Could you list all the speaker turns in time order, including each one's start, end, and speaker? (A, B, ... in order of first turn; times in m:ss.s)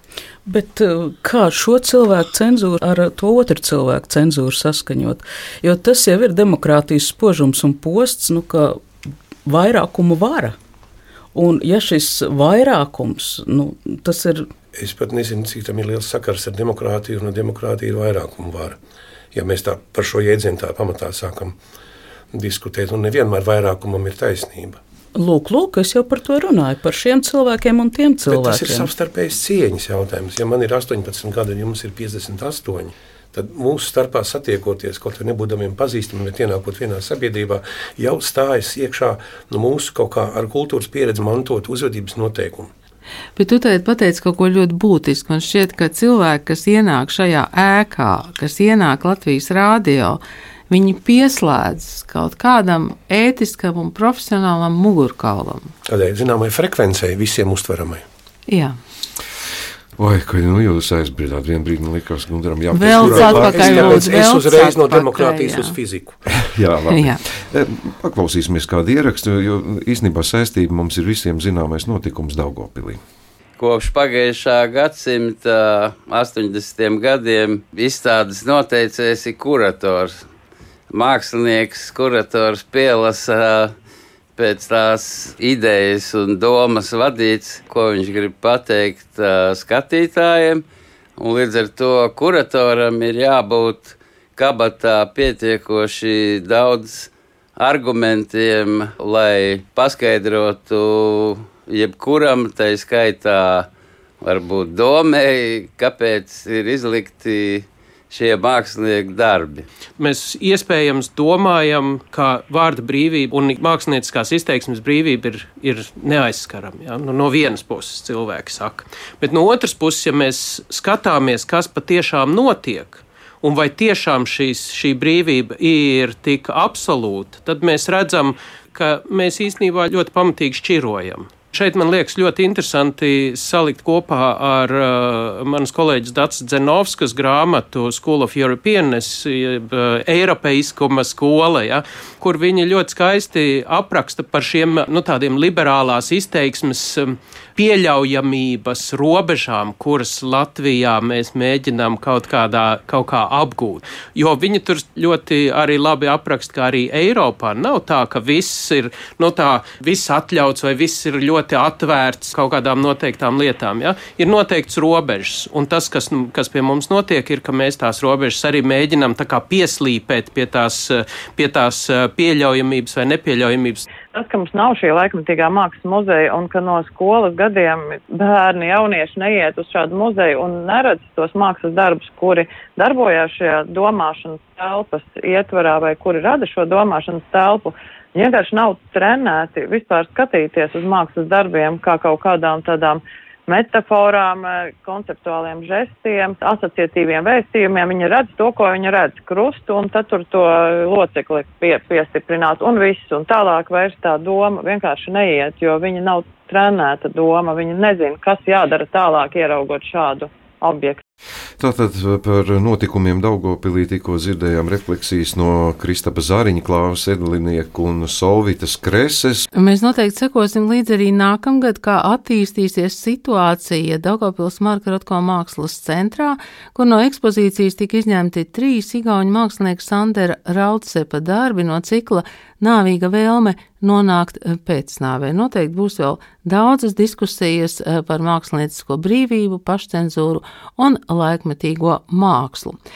0:00.5-0:08.8 A
0:09.4-0:10.5 A
0:11.3-0:14.5 A
0:14.7-0:18.8 B
0:19.3-0:21.6 B
0:22.3-0:24.8 B
0:25.1-0:28.9 A
0:28.2-0:42.7 B
0:43.4-0:55.7 C
0:55.9-0:58.0 B
0:58.5-0:58.8 C
1:00.0-1:04.1 D
1:02.7-1:05.8 C
1:02.8-1:06.2 B
1:06.3-1:13.0 D
1:06.9-1:07.2 C
1:13.6-1:20.2 E
1:20.9-1:23.7 E
1:24.4-1:30.6 E
1:31.2-1:43.7 E
1:44.2-1:49.6 E
1:50.0-2:53.9 F
2:54.1-3:31.0 G
3:31.6-3:39.5 D
3:39.5-4:02.8 C